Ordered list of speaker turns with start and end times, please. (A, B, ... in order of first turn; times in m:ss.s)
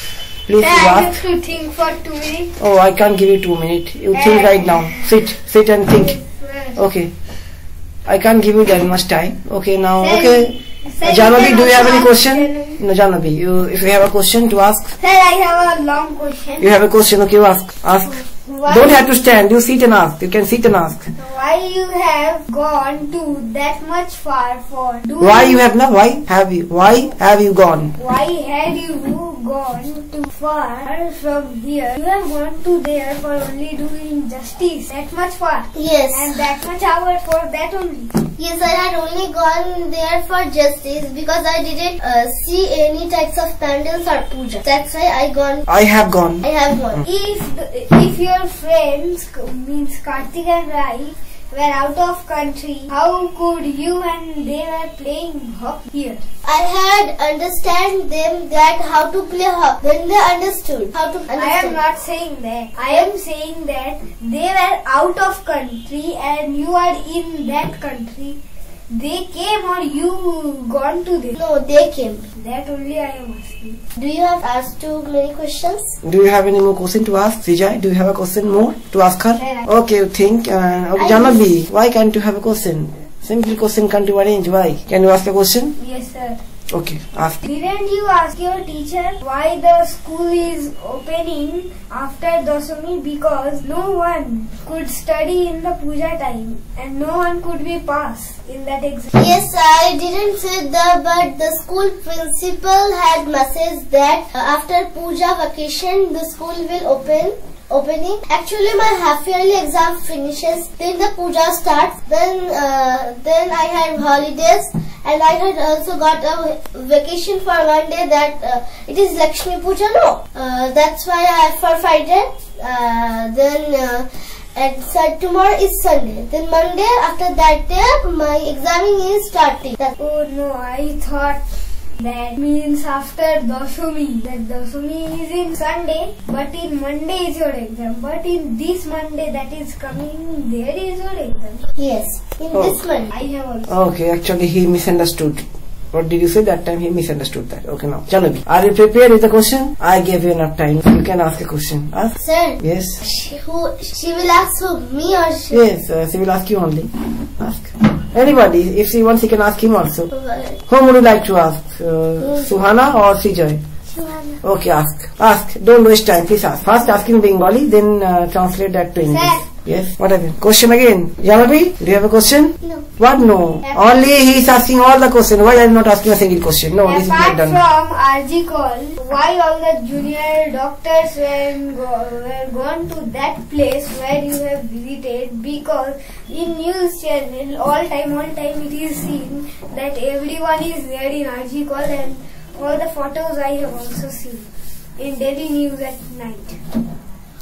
0:00.5-0:01.2 A
0:00.6-0:02.5 B
0:02.6-0:06.2 A
0:04.1-0:05.2 B
0:05.9-0:06.8 B
0:06.8-0:07.1 A
0:08.1-0:14.9 A
0:10.0-0:12.8 B
0:15.0-0:16.8 B
0:16.6-0:21.1 A
0:18.2-0:19.1 B
0:21.2-0:25.6 B
0:25.2-0:27.9 A
0:28.0-0:38.1 B
0:35.8-0:36.4 C
0:38.4-0:45.7 C
0:45.7-0:46.4 A
0:46.4-0:47.0 C
0:47.0-0:56.2 B
0:56.4-1:01.8 C
1:01.3-1:08.4 B
1:08.9-1:11.4 B
1:11.4-1:12.2 C
1:12.4-1:13.8 B
1:14.0-1:16.0 C
1:16.0-1:25.8 A
1:19.4-1:19.7 B
1:21.0-1:21.4 C
1:25.8-1:26.4 B
1:26.7-1:27.4 A
1:27.4-1:39.1 B
1:39.1-2:10.0 C
2:10.0-2:11.4 B
2:12.0-2:21.7 B
2:21.8-2:23.1 C
2:23.1-2:23.7 B
2:23.7-2:33.0 A
2:32.2-2:35.7 C
2:35.5-2:40.1 A
2:40.1-2:40.6 C
2:40.7-2:43.6 A
2:42.2-2:42.5 C
2:43.9-2:44.4 C
2:44.4-2:57.6 A
2:49.1-2:49.5 B
2:53.6-2:54.3 B
2:56.8-3:16.6 B